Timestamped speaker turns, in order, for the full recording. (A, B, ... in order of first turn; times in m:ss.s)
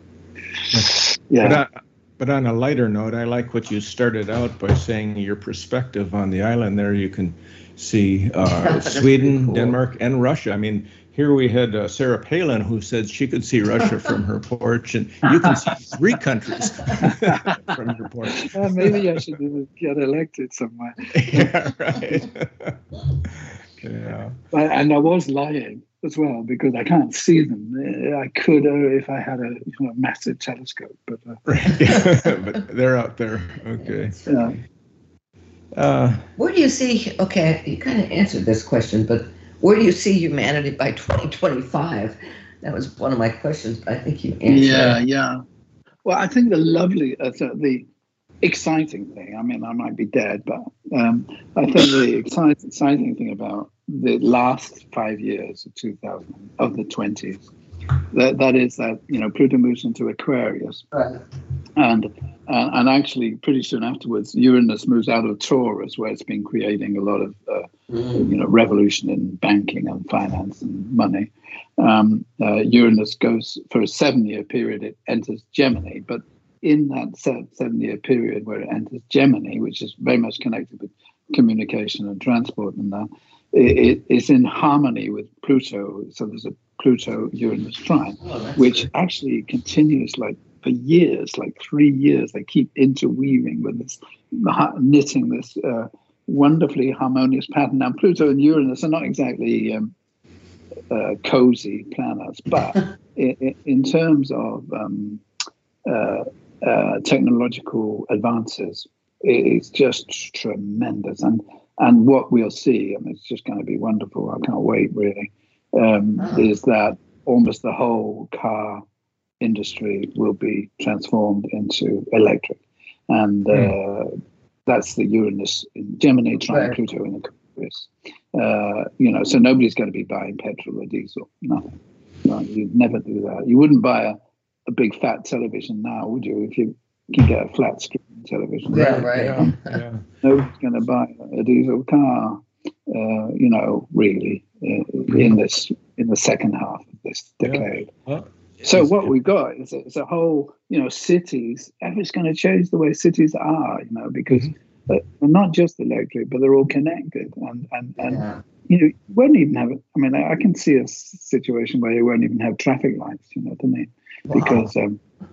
0:00.7-0:19.2 A
0:00.8-0:01.6 B
0:08.5-0:09.8 C
0:17.0-0:17.7 B
0:18.4-0:21.5 B
0:21.1-0:24.4 A
0:24.5-0:31.4 B
0:31.4-0:34.1 A
0:31.8-0:32.2 C
0:33.8-0:34.5 C
0:34.2-0:34.6 B
0:35.7-0:36.2 A
0:36.4-0:45.0 C
0:44.5-0:45.4 B
0:46.0-0:47.9 B
0:48.4-0:57.4 B
0:58.1-1:00.8 B
1:00.9-1:01.2 C
1:01.8-1:39.9 B
1:07.9-1:08.2 C
1:28.2-1:28.8 C
1:40.9-1:45.2 B
1:45.8-1:58.8 B
1:56.2-1:56.5 C
1:59.4-2:04.1 B
2:04.7-2:11.7 B
2:12.2-2:19.5 B
2:18.7-2:19.8 C
2:19.1-2:20.0 A
2:20.2-2:27.9 B
2:27.4-2:29.0 A
2:28.6-2:45.0 B
2:38.0-2:38.4 C
2:44.3-2:44.7 C